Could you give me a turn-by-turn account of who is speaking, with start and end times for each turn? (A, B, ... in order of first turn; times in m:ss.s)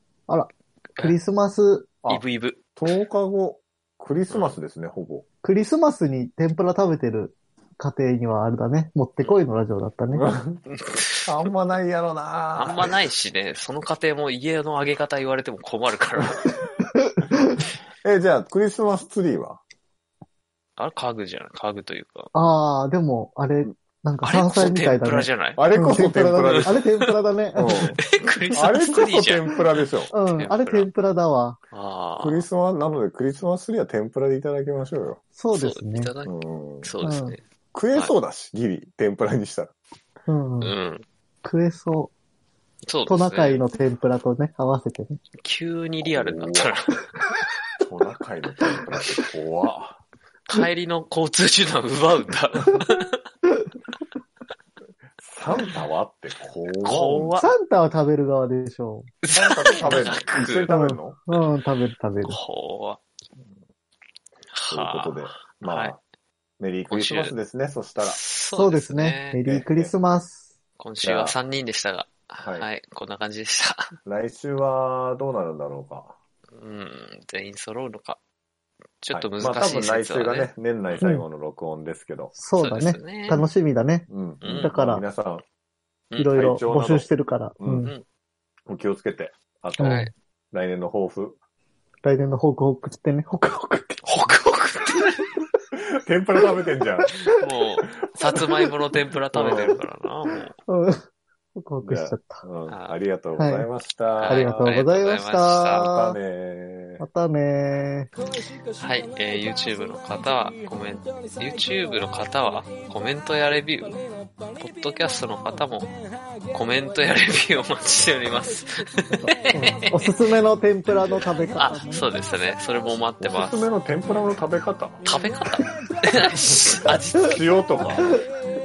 0:00.3-0:01.9 A
0:02.1-0:02.6 B
0:02.8-0:05.2 C
0:04.3-0:04.5 B
0:05.4-0:10.3 A
0:10.1-0:10.6 C
0:10.7-0:11.3 B
0:11.2-0:13.1 C
0:12.6-0:16.5 B
0:17.0-0:17.6 A
0:18.0-0:19.6 C
0:20.8-0:22.3 B
0:22.3-0:28.0 A
0:24.2-0:25.6 B
0:25.6-0:26.8 C
0:26.4-0:27.1 B
0:27.5-0:28.0 C
0:28.0-0:30.9 B
0:28.5-0:30.1 C
0:30.1-0:31.6 A
0:31.7-0:32.5 B
0:32.2-0:35.2 C
0:35.3-0:36.1 A
0:35.5-0:37.4 B
0:36.2-0:36.9 C
0:37.0-0:37.4 A
0:37.7-0:39.7 C
0:40.3-0:40.7 A
0:40.6-0:41.0 B
0:41.4-0:42.1 A
0:42.8-0:43.6 B
0:43.1-0:45.2 A
0:45.4-0:47.0 B
0:46.0-0:46.7 C
0:47.8-0:50.0 C
0:50.5-0:53.2 B
0:55.2-0:57.4 C
0:56.8-0:57.5 B
0:57.4-0:59.1 A
0:59.2-1:00.7 B
0:59.3-1:01.2 C
1:00.7-1:02.4 A
1:02.2-1:03.0 B
1:04.5-1:06.0 B
1:04.7-1:06.0 C
1:06.6-1:08.2 C
1:06.9-1:07.3 B
1:08.0-1:09.4 B
1:08.5-1:10.4 A
1:09.4-1:09.9 C
1:10.8-1:13.9 B
1:11.0-1:11.3 C
1:12.4-1:12.7 C
1:14.0-1:16.2 C
1:16.5-1:18.2 B
1:19.0-1:20.5 B
1:19.1-1:22.3 C
1:21.0-1:21.2 A
1:22.4-1:25.0 A
1:22.6-1:23.4 B
1:24.1-1:25.4 C
1:24.4-1:24.7 B
1:26.1-1:26.4 B
1:26.2-1:27.9 A
1:26.3-1:27.1 C
1:27.6-1:27.9 C
1:28.7-1:31.4 C
1:29.8-1:30.1 B
1:29.8-1:30.1 A
1:32.0-1:34.0 A
1:34.0-1:35.4 B
1:35.8-1:37.1 C
1:37.0-1:37.4 A
1:37.2-1:40.5 B
1:38.0-1:38.5 C
1:39.3-1:39.8 C
1:40.7-1:41.0 A
1:41.5-1:42.4 A
1:41.8-1:44.8 C
1:42.7-1:43.0 B
1:43.4-1:43.7 A
1:44.2-1:45.9 B
1:44.2-1:46.2 A
1:45.7-1:47.0 C
1:47.0-1:48.1 A
1:48.8-1:54.0 B
1:54.6-1:55.9 B
1:56.5-2:00.2 B
1:59.5-2:02.1 A
2:01.6-2:03.6 B
2:03.2-2:05.2 C
2:05.0-2:07.4 B
2:06.7-2:08.2 C